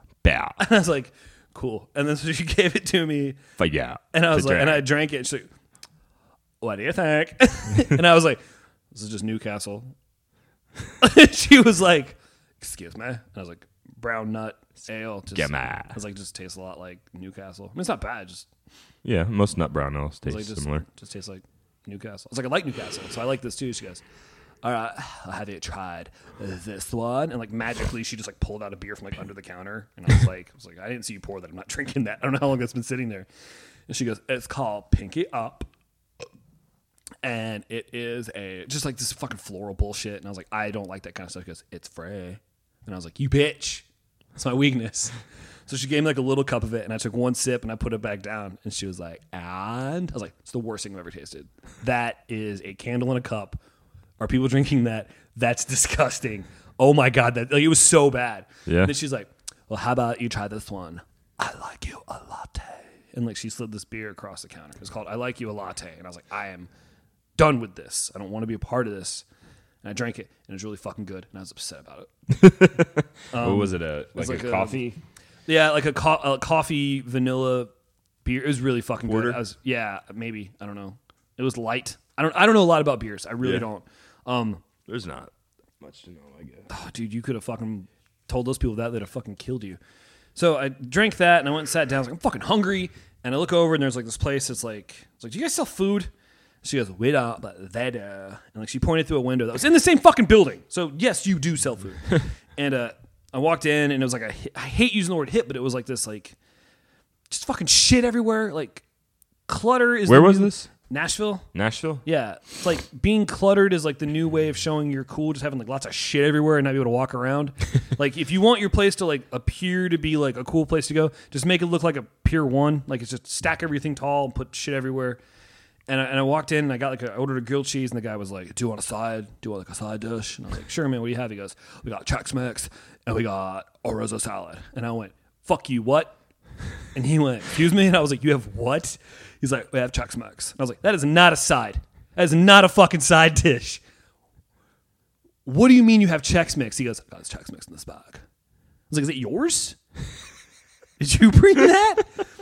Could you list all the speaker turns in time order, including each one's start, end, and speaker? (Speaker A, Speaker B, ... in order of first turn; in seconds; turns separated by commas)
Speaker A: 0.2-0.6, Speaker B: 0.6-3.4, Speaker A: 3.6-4.8, Speaker B: 4.1-5.5, Speaker B: 6.6-8.4, Speaker B: 8.9-9.9, Speaker B: 11.0-18.5, Speaker A: 15.3-16.0, Speaker A: 19.0-20.9, Speaker B: 20.3-24.0, Speaker B: 24.6-33.3, Speaker B: 33.9-35.7, Speaker B: 37.2-45.1, Speaker B: 45.7-53.6, Speaker B: 54.2-66.7, Speaker A: 58.7-58.9, Speaker B: 67.4-69.2, Speaker B: 69.8-72.1, Speaker A: 72.4-75.0, Speaker B: 73.3-74.9, Speaker B: 75.5-77.7, Speaker B: 78.2-84.6, Speaker A: 79.1-79.4, Speaker A: 84.9-86.7, Speaker B: 86.7-89.8, Speaker B: 90.4-96.1, Speaker B: 96.6-106.4, Speaker B: 107.3-108.8, Speaker B: 109.5-111.5, Speaker A: 110.1-110.7, Speaker A: 111.5-112.0, Speaker B: 112.0-125.2, Speaker B: 125.9-136.2, Speaker B: 136.9-143.8, Speaker B: 145.4-148.2, Speaker B: 148.9-149.8, Speaker B: 151.0-152.1